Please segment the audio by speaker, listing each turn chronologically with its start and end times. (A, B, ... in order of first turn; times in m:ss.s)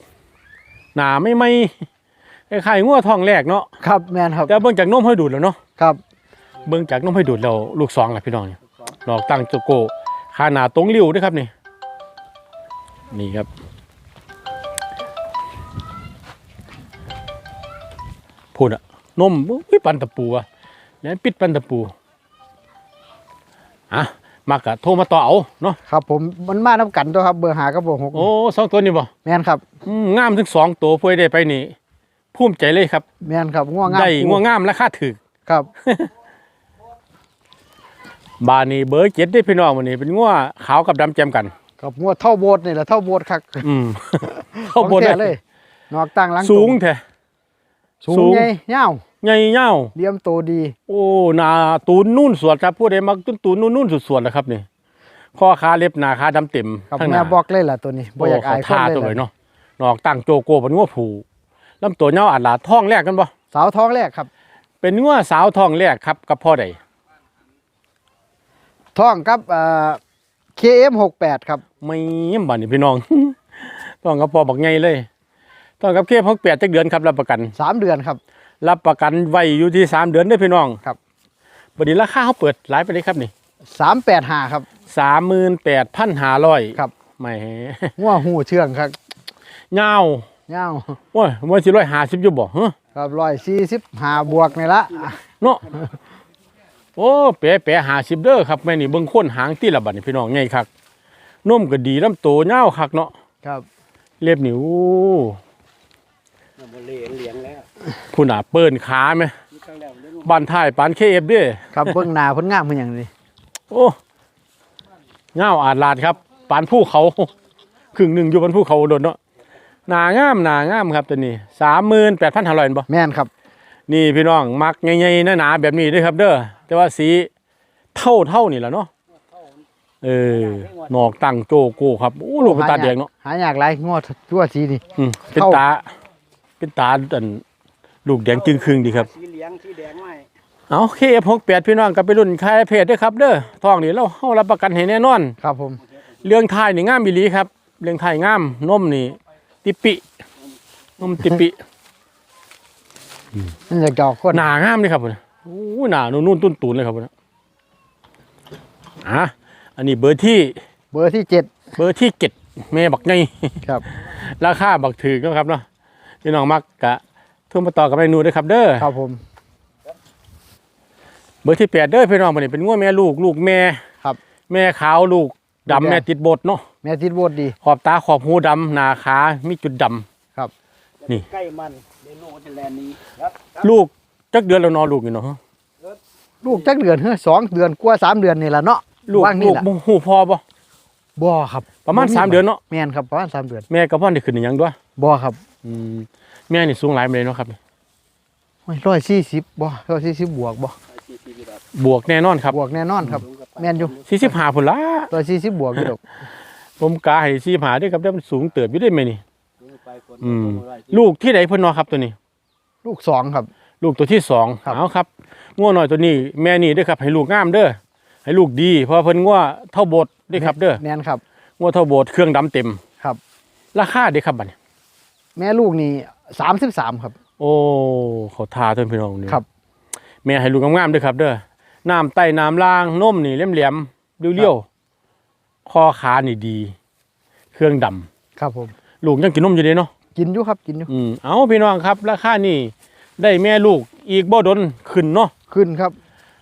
0:00.9-0:01.8 A
0:02.5-0:03.7 A
0:03.8-0:04.5 B
0:04.5-0:05.6 A
0:06.6-0:11.5 A
0:13.1-0:13.5 A
0:18.5-0:20.4 A
0:21.0-0:21.9 A
0:23.9-0:25.8 A
0:25.9-0:28.3 B
0:28.1-0:29.1 A
0:29.2-0:29.6 B
0:29.8-0:31.7 A
0:32.3-0:33.0 A
0:33.2-0:34.4 B
0:33.8-0:35.2 A
0:35.8-0:36.1 A
0:38.4-0:41.5 A
0:41.8-0:43.7 B
0:43.6-0:45.3 A
0:44.2-0:46.8 B
0:46.4-0:47.0 A
0:48.0-0:49.0 B
0:48.1-0:48.5 A
0:49.2-0:49.9 A
0:49.9-0:50.8 B
0:50.9-0:54.6 A
0:55.4-0:57.4 A
0:56.9-0:59.2 B
0:58.2-1:01.2 A
1:01.8-1:03.3 A
1:03.5-1:04.3 B
1:04.8-1:06.8 A
1:08.9-1:10.0 B
1:10.6-1:11.6 B
1:11.8-1:15.1 A
1:15.8-1:17.5 A
1:17.6-1:18.2 B
1:18.6-1:20.8 A
1:21.8-1:23.3 A
1:23.7-1:24.7 B
1:24.9-1:28.0 A
1:28.0-1:28.9 B
1:29.7-1:30.3 A
1:30.5-1:31.0 B
1:31.1-1:32.8 A
1:32.9-1:35.2 B
1:35.4-1:35.8 A
1:37.0-1:40.7 A
1:41.4-1:43.1 A
1:44.2-1:45.4 A
1:46.9-1:47.5 C
1:48.1-1:49.3 A
1:50.1-1:52.0 A
1:51.7-1:53.1 B
1:53.7-1:54.0 A
1:55.3-1:57.3 A
1:57.9-1:59.2 A
1:59.9-2:02.9 A
2:02.9-2:03.3 B
2:03.9-2:07.3 A
2:07.9-2:08.9 A
2:10.0-2:13.1 A
2:12.4-2:15.6 B
2:15.0-2:15.9 A
2:16.6-2:17.4 A
2:18.0-2:19.2 A
2:19.4-2:20.1 C
2:20.7-2:25.4 A
2:25.4-2:25.8 B
2:26.2-2:30.0 A
2:31.0-2:31.6 A
2:33.7-2:34.4 B
2:34.3-2:37.1 A
2:39.0-2:40.6 A
2:40.9-2:41.5 B
2:41.7-2:45.6 A
2:46.2-2:48.9 A
2:48.8-2:49.2 B
2:51.4-2:53.8 A
2:54.5-2:56.6 A
2:55.7-2:56.0 B
2:56.8-2:57.6 B
2:57.6-3:00.0 A
3:01.0-3:01.3 A
3:01.5-3:02.9 C
3:03.5-3:05.4 A
3:06.4-3:09.6 B
3:09.1-3:10.4 A
3:11.2-3:13.6 B
3:11.8-3:12.6 A
3:13.7-3:14.8 A
3:15.0-3:15.4 B
3:15.6-3:17.6 A
3:18.7-3:20.7 B
3:21.7-3:22.6 A
3:22.5-3:24.0 B
3:24.0-3:25.1 A
3:25.1-3:26.0 B
3:26.8-3:29.2 A
3:30.2-3:32.2 A
3:32.8-3:33.5 B
3:33.8-3:40.8 A
3:40.3-3:41.2 B
3:41.6-3:42.8 A
3:43.7-3:44.5 A
3:45.4-3:47.1 B
3:47.4-3:49.4 A
3:50.2-3:54.6 A
3:55.6-3:56.7 A
3:57.5-3:58.1 A
3:58.4-3:58.7 B
3:59.0-3:59.9 A
4:00.1-4:00.9 B
4:00.9-4:05.3 A
4:05.5-4:06.0 B